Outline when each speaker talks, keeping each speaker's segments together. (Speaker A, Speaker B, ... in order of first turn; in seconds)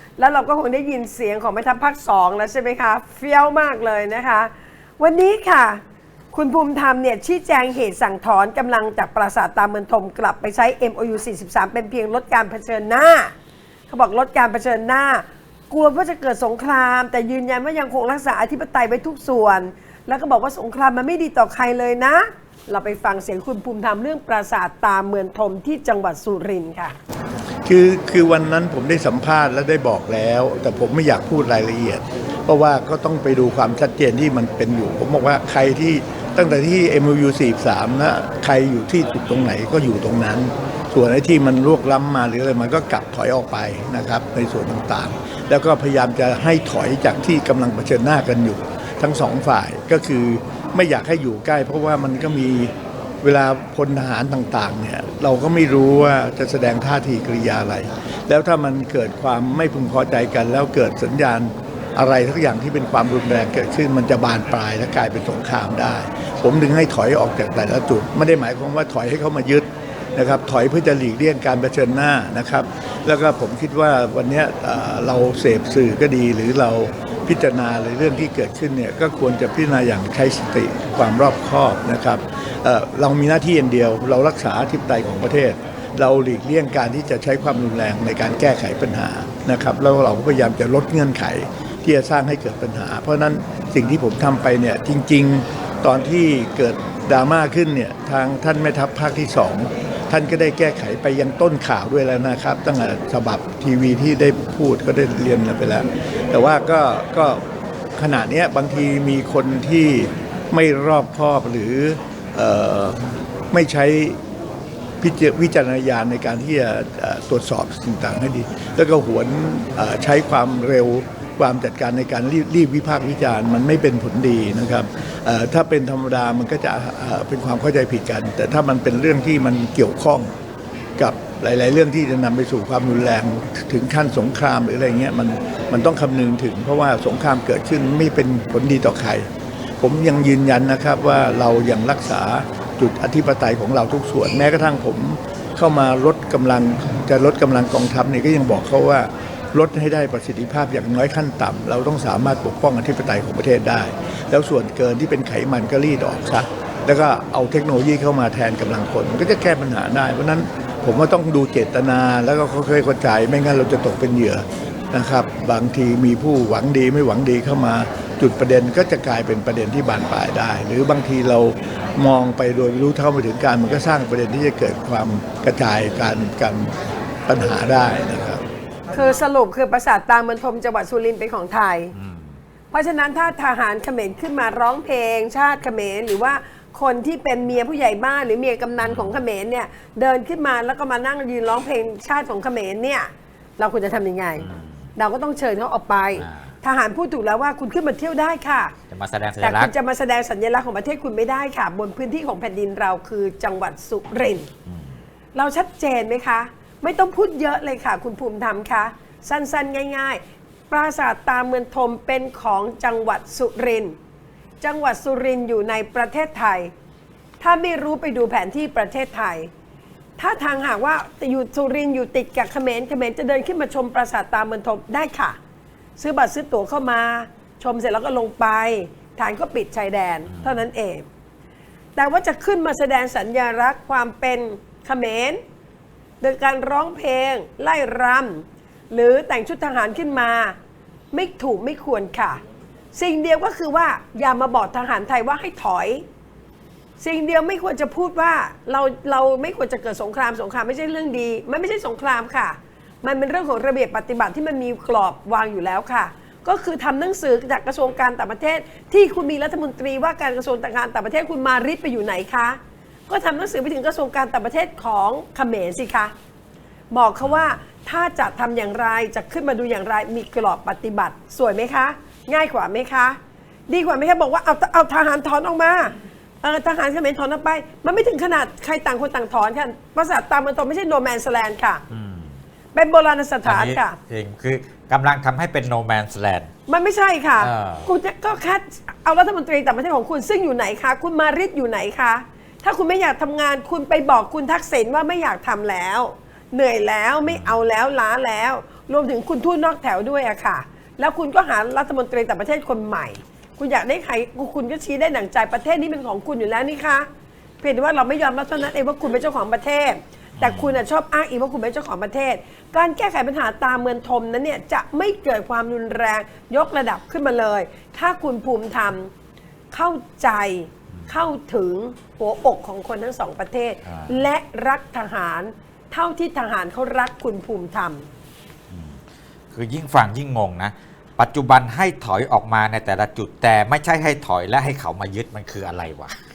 Speaker A: 0.2-5.8, 6.3-13.3, 13.9-26.9, 178.9-181.9, 182.7-198.7, 199.4-204.5, 205.3-214.0, 214.6-216.7, 217.4-219.5, 220.2-225.4, 226.0-231.1, 231.9-235.4, 236.2-240.6, 241.1-242.4, 242.9-246.0, 247.0-266.1, 266.9-281.8, 282.7-284.0, 286.7-307.1, 307.6-319.1, 319.7-328.1
Speaker B: 27.7-107.4, 108.0-113.0, 113.5-114.2, 115.0-130.3, 131.0-139.3, 139.8-176.8, 177.3-178.4
Speaker C: 181.9-182.4, 188.8-189.2, 194.4-194.9, 196.2-196.5, 198.9-199.7, 204.7-204.9, 230.3-230.6, 267.2-267.6, 281.9-282.4, 283.4-286.5, 287.4-287.9, 297.3-297.6, 310.4-310.8, 323.9-324.1, 328.7-329.0, 329.5-336.2